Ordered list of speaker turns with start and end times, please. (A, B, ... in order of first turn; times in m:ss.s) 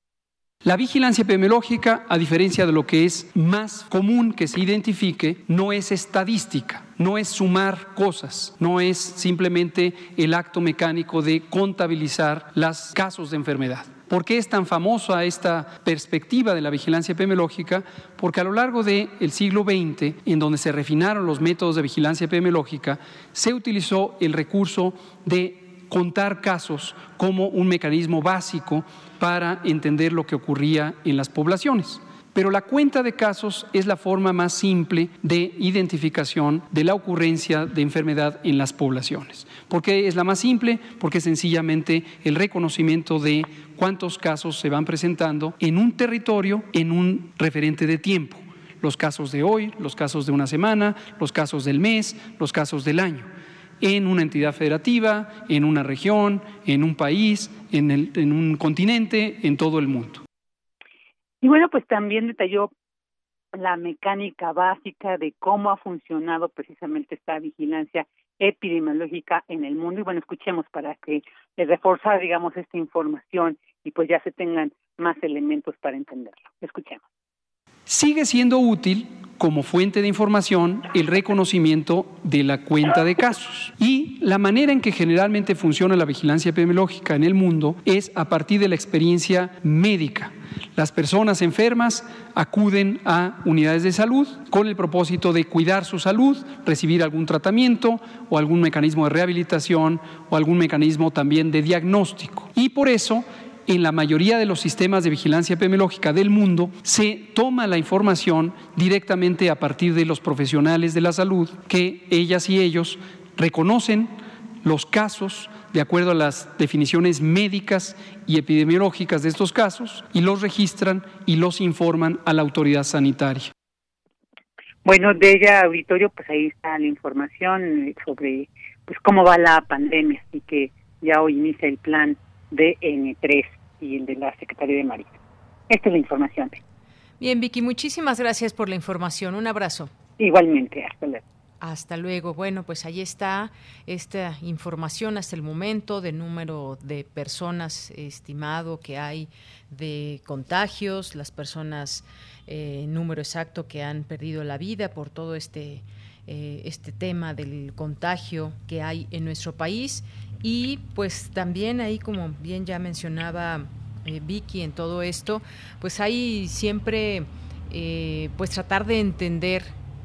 0:00.6-0:53.3 A
0:53.8-1:00.2 A
1:01.4-1:02.7 B
1:03.6-1:17.0 B
1:17.9-2:03.5 A
2:04.8-2:15.2 B
2:15.7-2:16.6 B
2:17.2-2:19.9 C
2:20.2-2:21.2 B
2:21.6-2:49.7 C